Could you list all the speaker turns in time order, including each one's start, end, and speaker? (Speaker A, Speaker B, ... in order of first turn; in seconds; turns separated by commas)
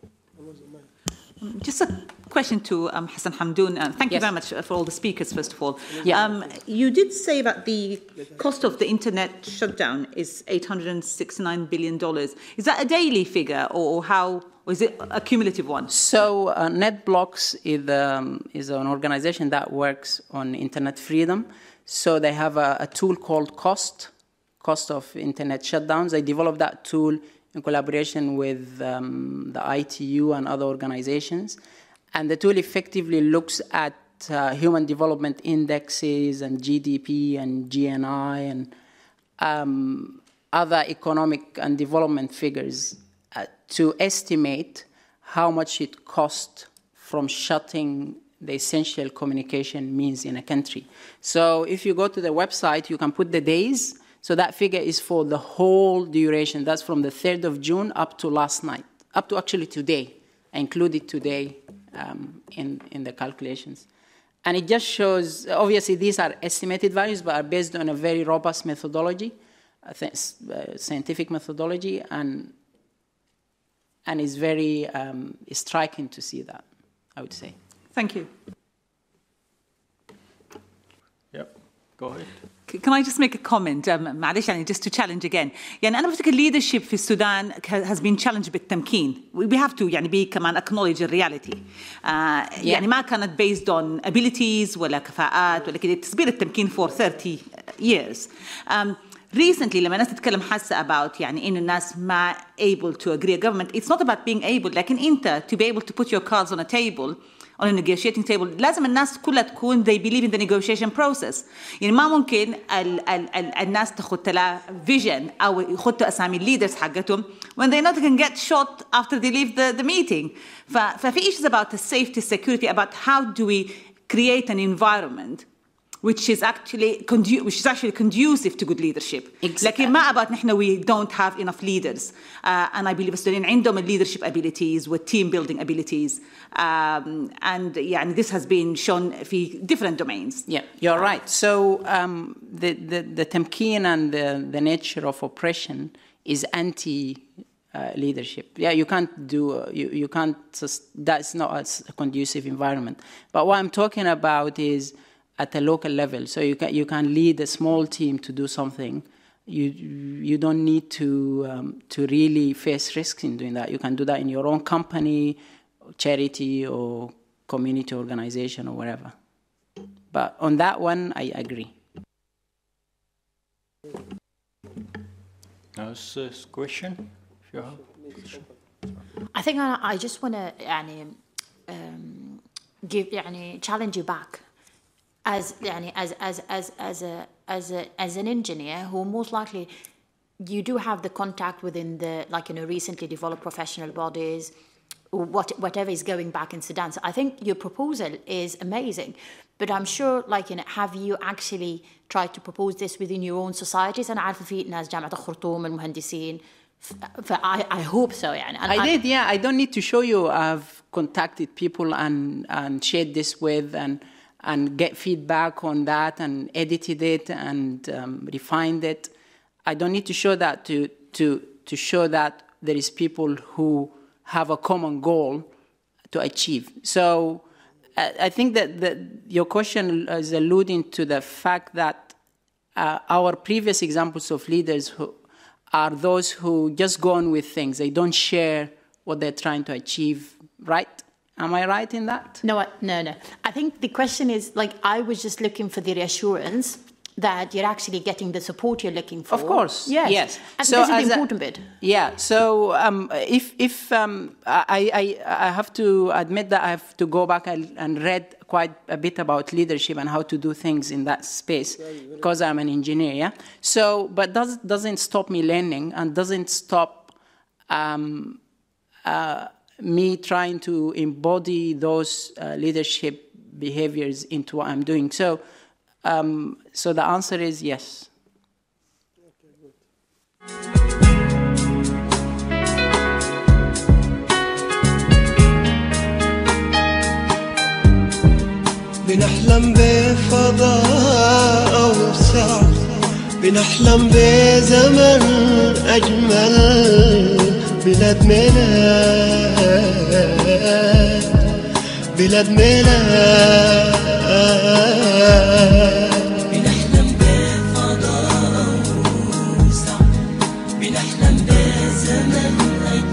Speaker A: 1.4-15.9, Speaker B: 15.9-31.6, Speaker B: 32.1-38.7, Speaker B: 39.4-63.9, Speaker B: 64.4-72.5, Speaker B: 74.0-77.5, Speaker A: 77.9-78.3, Speaker C: 81.3-82.4, Speaker A: 82.7-125.5, Speaker A: 126.0-140.5, Speaker B: 129.4-129.9, Speaker B: 140.5-165.4, Speaker B: 166.0-169.1, Speaker B: 170.1-171.7, Speaker C: 175.7-178.5, Speaker D: 179.3-184.4, Speaker D: 185.2-189.7, Speaker D: 190.4-194.5, Speaker D: 195.1-208.9, Speaker B: 208.7-219.1, Speaker B: 219.6-225.5, Speaker B: 226.1-227.4, Speaker B: 227.9-232.2, Speaker B: 232.7-235.2, Speaker B: 235.7-242.4, Speaker D: 242.4-251.7, Speaker B: 249.3-267.1, Speaker B: 267.7-268.4, Speaker B: 269.0-275.4, Speaker B: 276.0-278.1, Speaker E: 289.0-306.9, Speaker E: 307.9-308.9, Speaker E: 309.5-309.9, Speaker E: 310.8-311.3, Speaker E: 312.1-312.6